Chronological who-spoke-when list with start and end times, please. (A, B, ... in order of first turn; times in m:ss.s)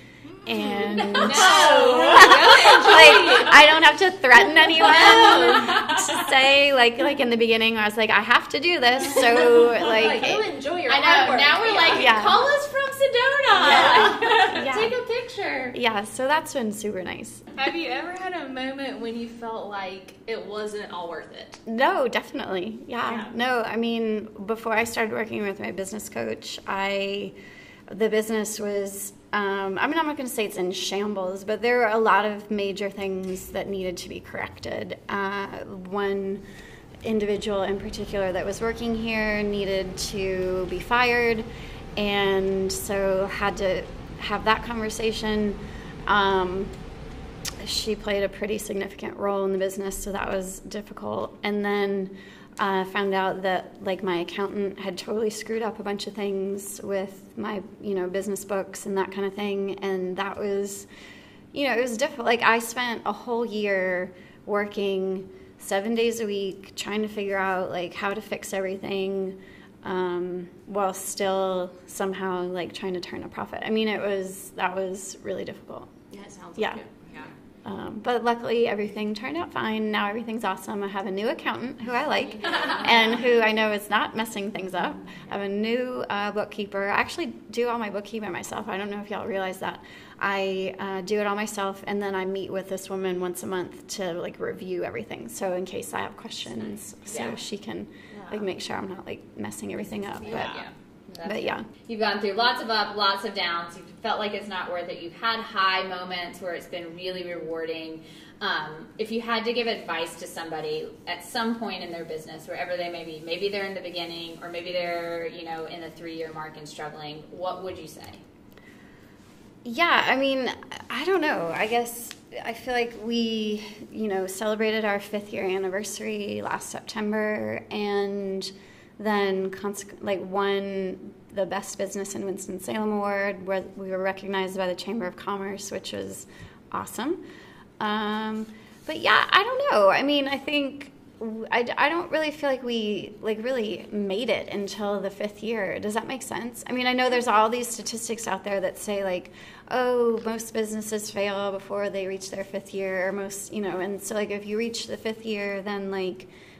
0:00.3-0:03.8 A
0:00.4-0:10.4 B
0:04.6-0:06.1 A
0:09.2-0:15.1 A
0:10.9-0:12.3 C
0:11.9-0:12.4 B
0:13.5-0:15.8 C
0:13.6-0:14.9 B
0:15.7-0:17.5 B
0:17.6-0:21.6 A
0:21.7-0:27.4 B
0:27.9-0:36.5 B
0:37.0-0:46.8 B
0:47.6-1:00.9 B
1:01.5-1:15.9 B
1:16.1-1:17.3 A
1:17.6-1:40.6 B
1:22.4-1:23.2 C
1:22.5-1:22.9 A
1:37.1-1:37.4 C
1:38.2-1:38.4 A
1:40.2-1:40.6 A
1:40.3-1:58.2 C
1:41.2-1:41.7 B
1:59.6-2:17.2 B
2:17.8-2:36.3 B